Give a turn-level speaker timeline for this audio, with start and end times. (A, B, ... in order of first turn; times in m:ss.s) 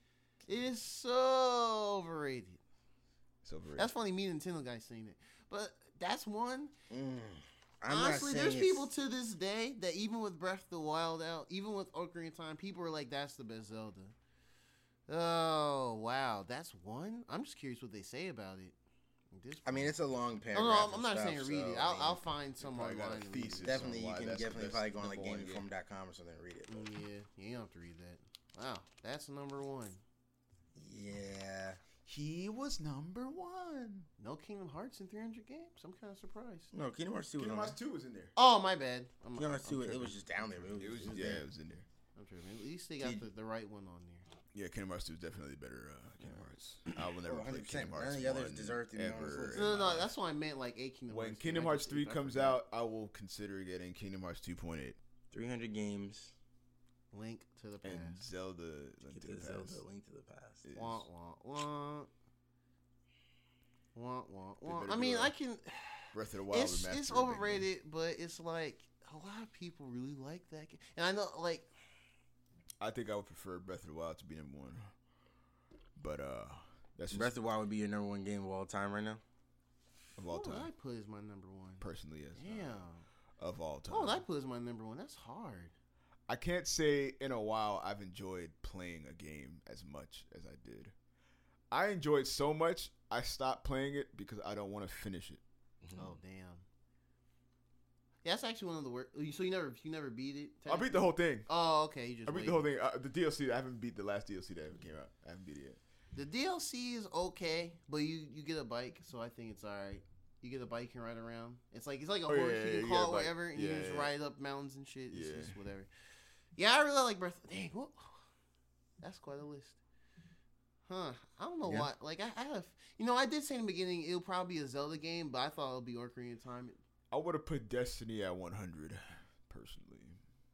0:00.5-0:02.6 A
0:03.4-0:03.9 B
0:03.8-0:06.7 A
0:06.9-0:08.9 C
0:07.9-0:14.2 A
0:15.1-0:18.8 A
0:19.3-0:20.0 A
0:19.6-0:22.2 C
0:20.5-0:23.9 A
0:22.6-0:25.6 B
0:23.6-0:26.9 C
0:26.7-0:30.0 A
0:30.8-0:31.8 C
0:32.0-0:34.1 B
0:34.2-0:36.7 A
0:36.7-0:37.8 C
0:37.4-0:38.3 B
0:38.4-0:40.2 A
0:39.4-0:41.4 C
0:40.7-0:41.9 B
0:42.2-0:44.3 A
0:43.0-0:43.3 C
0:44.5-0:50.1 B
0:47.2-0:50.0 C
0:49.5-0:52.6 A
0:51.1-0:55.0 B
0:55.3-0:56.3 C
0:57.1-0:58.2 A
0:57.8-0:59.8 B
0:59.1-1:00.6 C
1:00.6-1:01.1 B
1:00.8-1:02.1 A
1:03.9-1:11.7 A
1:04.6-1:05.4 B
1:06.1-1:07.7 B
1:12.8-1:14.9 B
1:16.0-1:17.4 B
1:17.1-1:19.2 C
1:20.2-1:20.7 B
1:20.3-1:23.0 A
1:21.8-1:22.8 B
1:23.4-1:24.2 B
1:23.9-1:25.7 A
1:26.3-1:30.9 B
1:31.7-1:35.4 B
1:35.8-1:36.2 C
1:36.0-1:36.6 A
1:38.2-1:42.6 A
1:40.7-1:41.5 B
1:42.3-1:45.8 B
1:46.1-1:55.9 A
1:52.3-1:54.1 B
1:55.1-1:55.6 B
1:56.6-1:58.2 A
1:59.0-1:59.8 A
2:00.9-2:06.8 A
2:01.6-2:01.9 B
2:07.1-2:10.2 B